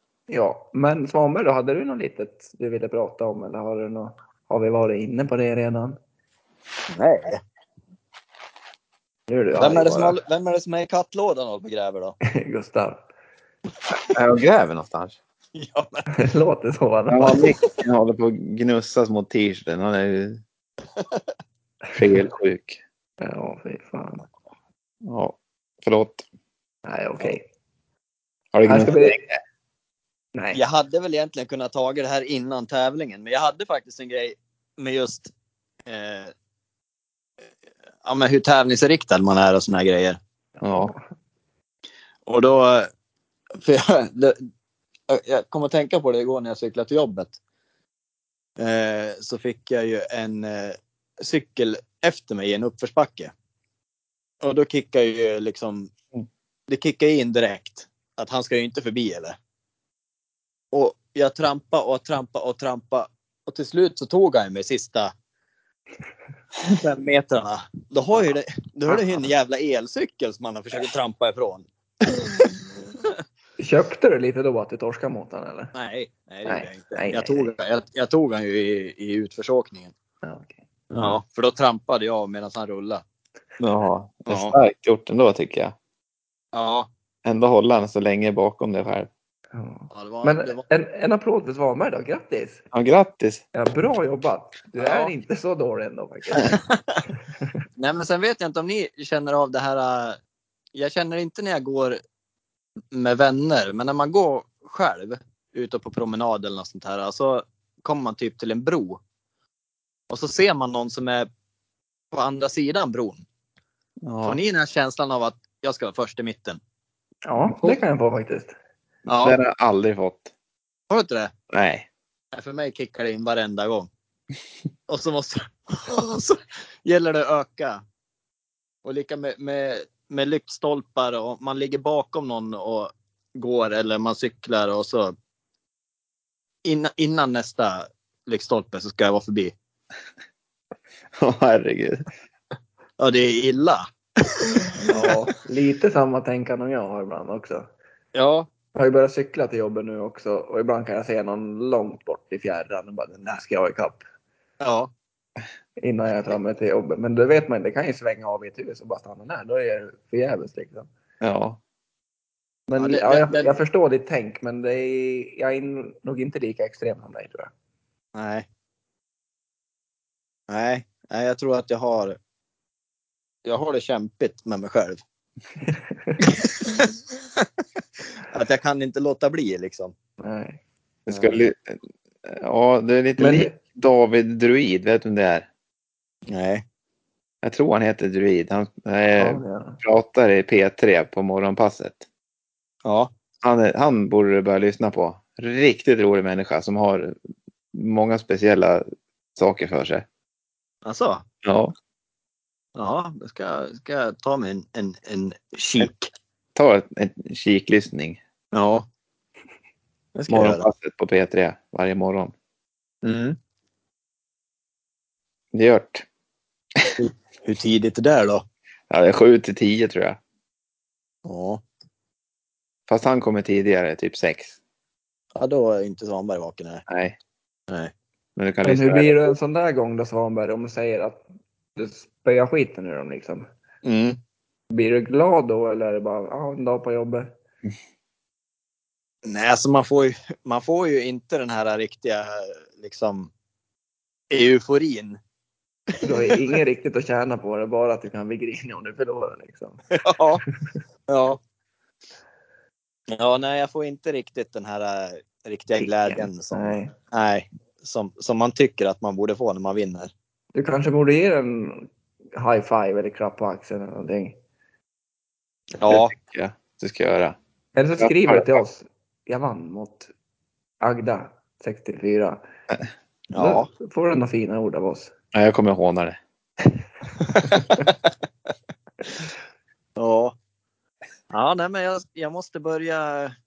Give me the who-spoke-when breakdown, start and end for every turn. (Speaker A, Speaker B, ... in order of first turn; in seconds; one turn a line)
Speaker A: 0.3-6.0
Speaker B: 6.9-7.4
Speaker A: 9.3-10.2
Speaker B: 9.6-12.2
Speaker A: 12.3-13.1
Speaker C: 14.1-15.2
Speaker B: 15.5-16.1
Speaker A: 16.1-17.5
Speaker C: 17.1-20.4
Speaker B: 20.9-21.2
Speaker C: 21.9-22.8
Speaker A: 23.2-24.2
Speaker C: 25.0-26.2
Speaker A: 26.9-27.4
Speaker C: 28.5-29.4
Speaker A: 28.6-29.2
Speaker A: 30.3-30.6
Speaker B: 30.5-35.3
Speaker B: 35.9-36.3
Speaker B: 38.0-40.2
Speaker A: 40.6-41.0
Speaker C: 40.6-40.9
Speaker B: 42.2-42.9
Speaker B: 43.6-44.5
Speaker B: 45.1-47.4
Speaker B: 48.6-53.3
Speaker B: 54.4-55.9
Speaker B: 56.7-59.4
Speaker B: 60.7-65.1
Speaker B: 66.7-73.1
Speaker A: 73.6-75.7
Speaker B: 75.7-79.9
Speaker A: 76.5-77.5
Speaker A: 80.2-81.2
Speaker B: 80.9-83.0
Speaker C: 83.6-85.7
Speaker B: 84.3-84.5
Speaker B: 86.5-86.9
Speaker C: 87.2-89.1
Speaker A: 89.5-92.6
Speaker B: 89.9-90.6
Speaker C: 92.7-93.4
Speaker A: 93.5-96.6
Speaker B: 94.8-95.1
Speaker B: 96.3-97.0
Speaker B: 97.8-100.2
Speaker B: 100.7-102.0
Speaker B: 102.9-109.0
Speaker B: 110.1-111.3
Speaker B: 112.1-113.2
Speaker C: 114.0-114.4
Speaker B: 114.2-116.6
Speaker A: 117.2-118.5
Speaker B: 119.0-119.4
Speaker C: 119.2-120.3
Speaker B: 120.9-121.3
Speaker C: 121.5-121.8
Speaker B: 122.3-123.9
Speaker B: 124.9-127.8
Speaker B: 128.8-135.1
Speaker B: 136.6-139.5
Speaker C: 141.2-142.0
Speaker B: 143.0-143.8
Speaker B: 144.7-145.2
Speaker A: 144.9-147.7
Speaker B: 148.1-148.5
Speaker A: 148.8-154.0
Speaker B: 154.6-154.9
Speaker A: 155.8-160.9
Speaker C: 161.2-161.6
Speaker A: 162.7-167.5
Speaker B: 162.8-163.5
Speaker B: 168.1-168.4
Speaker B: 170.5-172.2
Speaker B: 173.4-175.0
Speaker A: 175.7-176.2
Speaker B: 176.3-176.9
Speaker B: 178.3-179.9
Speaker A: 180.2-180.6
Speaker C: 181.1-185.5
Speaker B: 181.1-181.4
Speaker A: 183.2-183.5
Speaker B: 186.3-186.6
Speaker C: 187.4-192.1
Speaker A: 189.2-189.8
Speaker B: 192.8-193.1
Speaker C: 193.4-197.1
Speaker C: 197.7-198.8
Speaker C: 199.3-200.1
Speaker B: 200.8-201.2
Speaker C: 201.4-201.7
Speaker B: 202.8-206.1
Speaker C: 206.5-208.2
Speaker B: 208.5-208.8
Speaker B: 210.1-210.7
Speaker C: 210.3-212.3
Speaker B: 213.0-213.4
Speaker C: 215.5-216.0
Speaker B: 217.0-218.4
Speaker C: 218.9-220.2
Speaker B: 221.2-221.6
Speaker C: 222.9-224.6
Speaker B: 225.3-226.8
Speaker C: 226.9-227.2
Speaker C: 228.3-229.2
Speaker A: 228.6-231.2
Speaker A: 231.8-233.5
Speaker B: 233.8-234.2
Speaker A: 234.7-237.3
Speaker B: 239.2-243.3
Speaker B: 244.3-245.2
Speaker B: 245.9-246.4
Speaker A: 246.0-249.8
Speaker B: 250.0-250.4
Speaker B: 251.1-251.4
Speaker B: 253.1-260.1
Speaker A: 255.8-256.9
Speaker A: 260.5-264.4
Speaker B: 265.8-266.1
Speaker C: 265.9-267.4
Speaker A: 267.8-270.1
Speaker C: 268.0-268.5
Speaker A: 270.8-272.4
Speaker B: 273.3-273.7
Speaker A: 273.3-275.1
Speaker C: 275.3-276.2
Speaker B: 277.5-277.9
Speaker B: 280.0-280.3
Speaker B: 281.3-283.3